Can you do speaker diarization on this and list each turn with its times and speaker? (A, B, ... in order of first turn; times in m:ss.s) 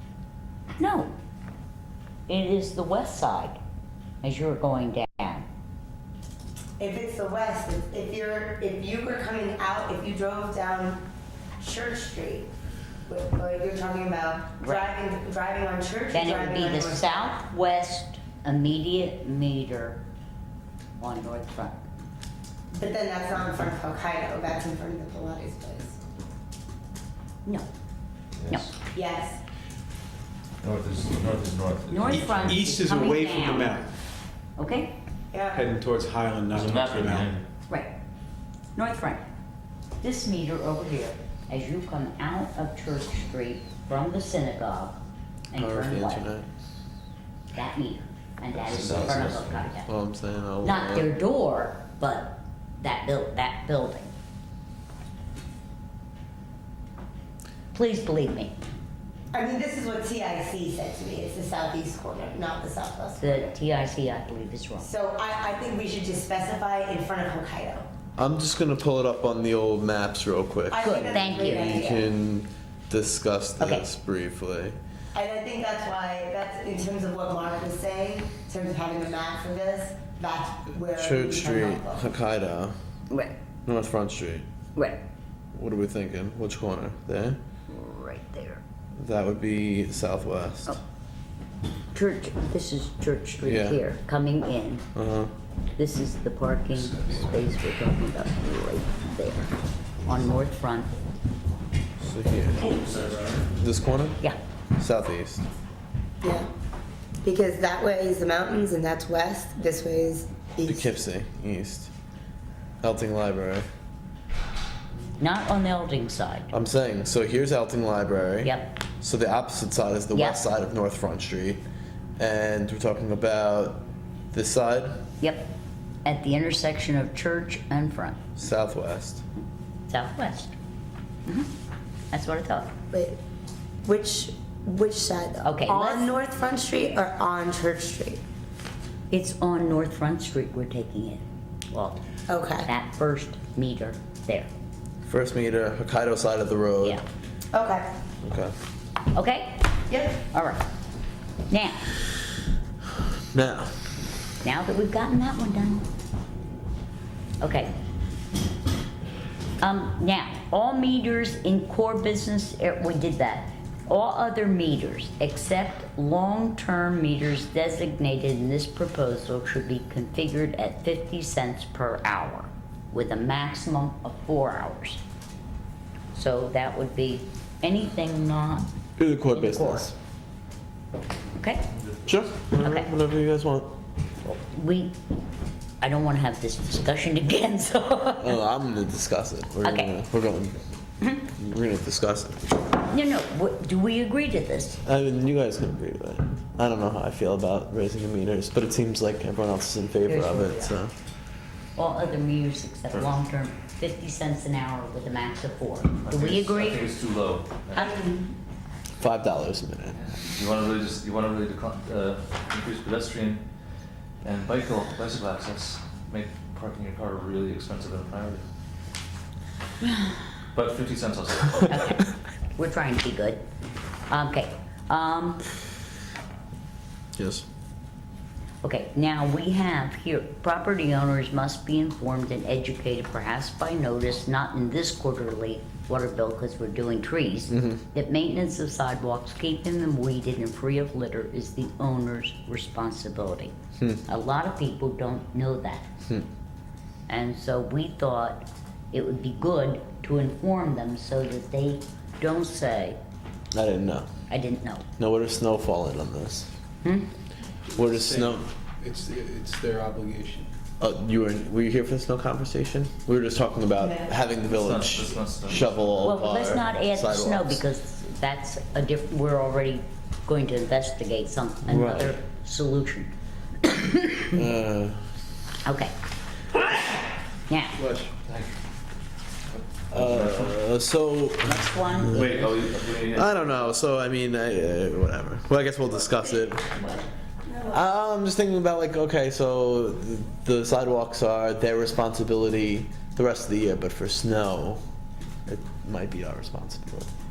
0:00.8-0:01.1 A
0:02.3-0:03.6 A
0:04.2-0:05.4 A
0:06.8-0:11.0 B
0:11.6-0:12.5 B
0:13.1-0:17.2 B
0:14.6-0:14.9 A
0:16.1-0:20.0 A
0:21.0-0:21.8 A
0:22.7-0:26.0 B
0:28.4-0:28.7 C
0:28.9-0:29.4 B
0:30.6-0:32.6 C
0:31.9-0:33.8 A
0:32.2-0:33.9 D
0:34.6-0:34.9 A
0:35.3-0:35.7 B
0:35.5-0:37.3 D
0:36.5-0:37.5 C
0:37.7-0:37.9 A
0:38.8-0:39.2 A
0:40.0-0:45.0 A
0:45.5-0:46.3 A
0:45.5-0:46.5 E
0:47.5-0:49.9 A
0:48.6-0:49.8 C
0:48.8-0:49.2 E
0:49.9-0:51.1 E
0:50.6-0:54.1 A
0:57.7-0:58.6 A
0:59.3-1:03.5 B
1:03.2-1:04.9 A
1:04.8-1:07.8 B
1:08.2-1:14.8 E
1:10.7-1:12.1 B
1:10.8-1:11.9 A
1:13.6-1:13.8 A
1:15.1-1:22.1 B
1:20.9-1:22.8 E
1:23.1-1:23.4 A
1:23.7-1:24.5 E
1:24.8-1:25.0 A
1:25.5-1:27.4 E
1:27.7-1:28.6 A
1:29.0-1:30.8 E
1:31.9-1:34.8 A
1:33.4-1:33.8 E
1:35.0-1:35.3 E
1:35.8-1:39.5 A
1:36.8-1:37.3 C
1:40.0-1:40.9 A
1:42.0-1:42.7 E
1:42.7-1:43.5 C
1:43.6-1:44.2 E
1:44.8-1:45.4 E
1:47.2-1:50.9 B
1:50.6-1:51.9 E
1:52.8-1:53.7 E
1:55.2-1:56.5 A
1:56.5-2:01.6 E
1:58.4-1:58.8 A
2:00.1-2:00.4 A
2:02.2-2:05.0 E
2:05.2-2:05.5 A
2:06.0-2:08.2 A
2:08.4-2:09.2 E
2:09.9-2:10.5 A
2:12.1-2:12.7 A
2:12.9-2:13.2 B
2:13.8-2:18.2 B
2:15.4-2:16.1 A
2:19.1-2:22.0 A
2:22.3-2:22.7 B
2:22.6-2:24.5 A
2:25.0-2:27.0 E
2:27.5-2:27.9 B
2:28.2-2:28.5 E
2:29.1-2:30.6 A
2:29.9-2:30.2 B
2:31.5-2:31.9 A
2:33.3-2:33.7 E
2:34.4-2:35.9 A
2:37.4-2:37.7 A
2:39.6-2:55.0 A
2:56.1-2:58.7 A
2:59.0-3:00.0 E
2:59.3-2:59.9 A
3:01.4-3:01.7 A
3:02.1-3:03.7 E
3:02.6-3:02.9 A
3:04.2-3:05.0 A
3:05.8-3:08.4 A
3:08.2-3:10.6 E
3:09.6-3:10.0 A
3:11.2-3:12.4 E
3:12.8-3:14.8 A
3:14.8-3:20.9 E
3:20.0-3:20.8 A
3:21.8-3:26.9 A
3:26.0-3:27.9 C
3:27.7-3:28.3 B
3:29.0-3:30.0 E
3:29.9-3:33.4 C
3:34.2-3:38.4 C
3:40.5-3:41.8 C
3:41.7-3:43.4 A
3:44.1-3:45.4 A
3:47.2-3:47.4 E
3:48.6-4:03.5 A
3:57.5-3:57.8 E
4:04.0-4:05.9 A
4:07.1-4:13.0 A
4:13.5-4:14.1 E
4:14.3-4:14.9 A
4:15.0-4:16.5 E
4:16.8-4:17.1 A
4:17.7-4:18.5 E
4:17.8-4:18.3 D
4:18.8-4:20.5 D
4:20.8-4:27.6 E
4:23.8-4:24.1 B
4:24.5-4:25.9 C
4:26.0-4:33.1 A
4:31.7-4:32.2 E
4:33.6-4:34.4 A
4:34.3-4:35.0 E
4:35.6-4:35.9 A
4:37.5-4:37.8 A
4:37.8-4:38.1 E
4:38.2-4:38.5 C
4:39.9-4:40.6 C
4:39.9-4:42.3 E
4:41.4-4:42.6 A
4:42.1-4:43.7 C
4:43.0-4:46.8 E
4:46.8-4:47.8 B
4:47.7-4:54.8 E
4:55.5-4:57.1 E